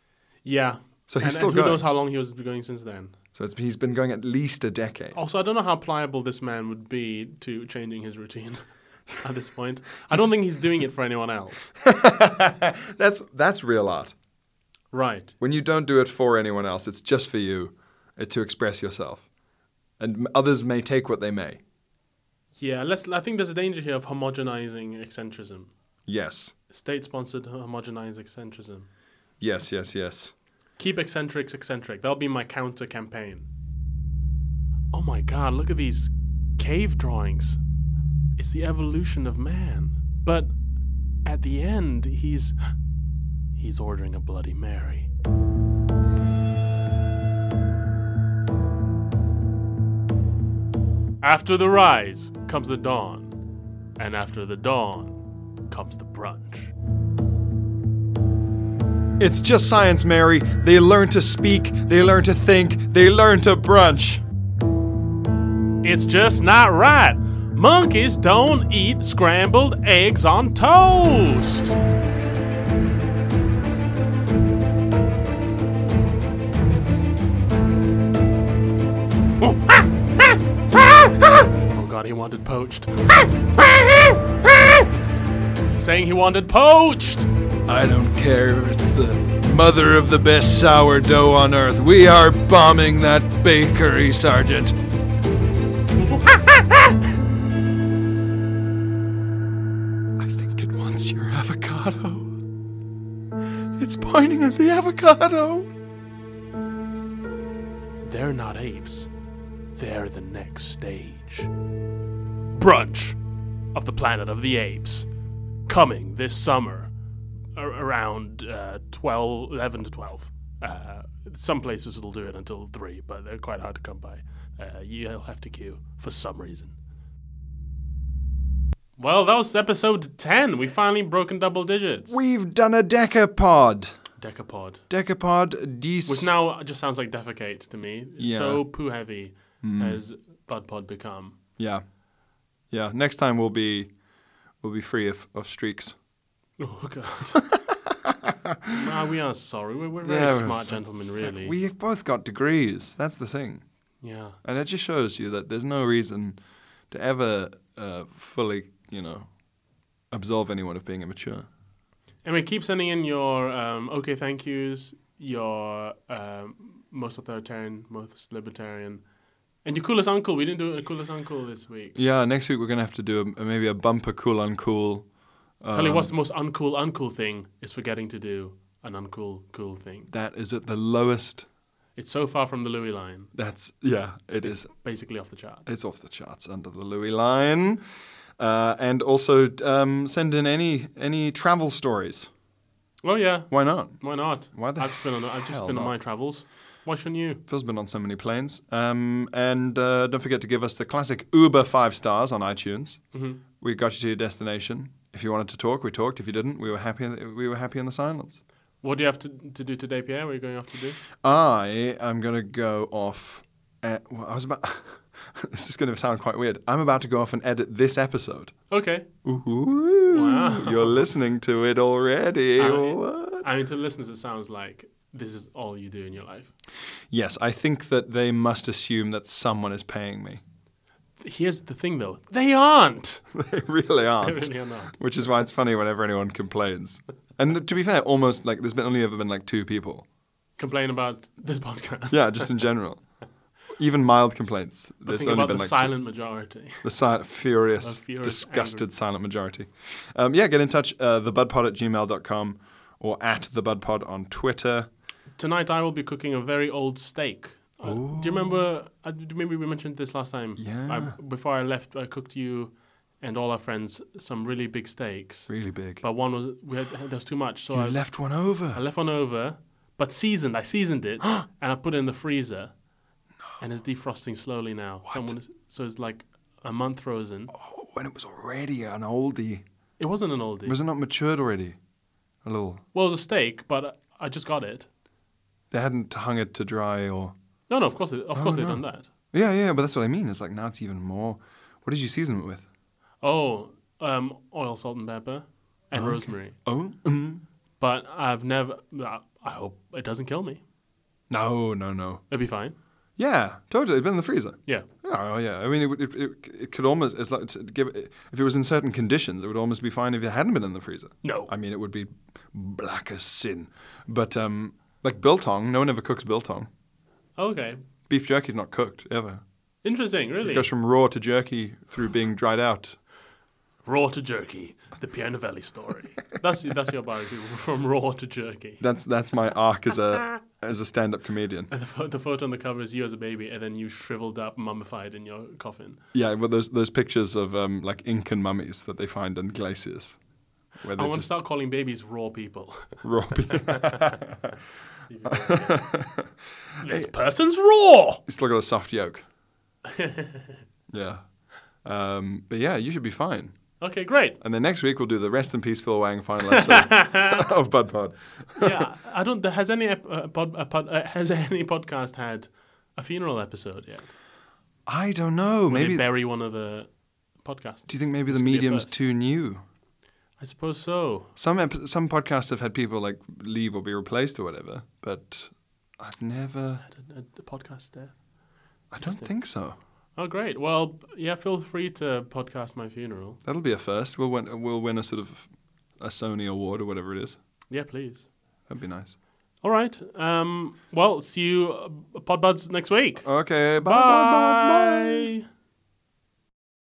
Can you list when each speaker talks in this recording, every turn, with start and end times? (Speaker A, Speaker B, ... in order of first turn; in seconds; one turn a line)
Speaker A: 0.4-3.1
Speaker B: 1.1-1.9
Speaker B: 3.3-5.2
Speaker A: 5.1-11.7
Speaker B: 11.8-14.1
Speaker A: 14.9-15.3
Speaker B: 15.4-19.3
Speaker B: 20.0-21.6
Speaker A: 22.6-25.7
Speaker B: 26.1-26.5
Speaker A: 26.7-28.9
Speaker B: 29.4-30.3
Speaker A: 30.8-33.5
Speaker A: 34.9-37.6
Speaker A: 38.4-40.6
Speaker A: 41.2-42.7
Speaker A: 43.5-45.1
Speaker A: 51.2-53.4
Speaker A: 54.0-56.7
Speaker B: 59.2-64.2
Speaker A: 65.8-71.7
Speaker A: 81.6-84.2
Speaker A: 85.6-87.3
Speaker B: 87.7-94.8
Speaker B: 100.2-102.4
Speaker B: 103.8-105.7
Speaker A: 108.0-109.1
Speaker A: 109.7-111.5
Speaker A: 112.5-113.2
Speaker A: 113.7-115.1
Speaker A: 115.7-116.9
Speaker A: 117.5-126.7
Speaker A: 129.0-132.2
Speaker B: 132.1-133.9
Speaker A: 134.2-134.8
Speaker B: 134.9-136.3
Speaker A: 136.1-141.4
Speaker B: 138.2-138.7
Speaker B: 139.6-140.0
Speaker B: 141.6-141.8
Speaker B: 142.7-143.9
Speaker B: 144.6-145.9
Speaker A: 146.6-147.4
Speaker B: 147.6-148.8
Speaker A: 148.7-151.6
Speaker B: 150.0-153.6
Speaker A: 154.0-154.4
Speaker B: 154.4-156.4
Speaker B: 156.9-159.3
Speaker B: 160.1-161.5
Speaker A: 162.2-169.0
Speaker A: 169.6-171.9
Speaker B: 171.9-175.1
Speaker B: 175.6-176.1
Speaker A: 175.7-180.1
Speaker B: 180.1-181.4
Speaker A: 181.9-183.3
Speaker B: 183.3-184.7
Speaker A: 184.4-185.6
Speaker B: 185.6-187.8
Speaker B: 188.4-192.3
Speaker A: 193.0-197.4
Speaker B: 193.5-195.9
Speaker B: 197.5-208.4
Speaker A: 203.1-203.4
Speaker A: 208.8-211.0
Speaker B: 211.2-218.5
Speaker A: 218.7-219.1
Speaker B: 219.2-223.5
Speaker A: 220.1-221.1
Speaker A: 222.6-226.5
Speaker B: 227.1-230.4
Speaker A: 231.2-233.2
Speaker B: 233.3-240.0
Speaker A: 234.2-234.9
Speaker A: 240.6-242.5
Speaker B: 242.1-243.1
Speaker B: 243.7-246.1
Speaker A: 245.0-246.9
Speaker B: 246.8-254.9
Speaker A: 247.8-248.9
Speaker A: 255.4-272.7
Speaker B: 257.8-258.6
Speaker B: 260.6-261.1
Speaker B: 265.5-266.0
Speaker B: 267.7-268.8
Speaker A: 273.6-277.5
Speaker B: 275.0-275.3
Speaker B: 277.5-279.6
Speaker A: 280.0-280.8
Speaker B: 280.6-281.8
Speaker B: 282.4-282.8
Speaker A: 282.9-284.9
Speaker B: 285.7-287.3
Speaker A: 287.7-289.1
Speaker B: 288.3-292.6
Speaker A: 293.2-296.6
Speaker B: 295.9-297.4
Speaker A: 297.8-300.6
Speaker B: 301.3-302.2
Speaker A: 302.3-302.7
Speaker B: 303.2-316.7
Speaker A: 311.2-311.5
Speaker A: 317.4-317.8
Speaker B: 318.1-319.4
Speaker A: 319.8-320.7
Speaker B: 320.4-323.0
Speaker A: 323.8-328.8
Speaker B: 328.8-331.7
Speaker A: 331.7-336.0
Speaker B: 336.1-340.2
Speaker B: 340.8-341.3
Speaker A: 340.9-343.0
Speaker B: 343.0-344.5
Speaker A: 345.1-345.9
Speaker B: 345.2-346.3
Speaker A: 346.8-348.2
Speaker B: 346.8-347.1
Speaker B: 348.3-349.2
Speaker A: 349.9-350.6
Speaker B: 350.9-353.7
Speaker A: 353.8-354.4
Speaker B: 354.4-358.8
Speaker A: 356.5-357.4
Speaker A: 358.6-364.1
Speaker B: 364.9-366.0
Speaker A: 365.7-369.0
Speaker B: 367.9-369.6
Speaker A: 370.4-371.3
Speaker B: 371.4-376.8
Speaker A: 376.8-378.2
Speaker B: 378.9-379.8
Speaker A: 379.0-379.3
Speaker A: 380.1-383.4
Speaker B: 383.4-387.4
Speaker A: 387.7-388.3
Speaker B: 388.7-389.1
Speaker A: 389.6-393.3
Speaker B: 393.2-395.3
Speaker A: 393.8-395.4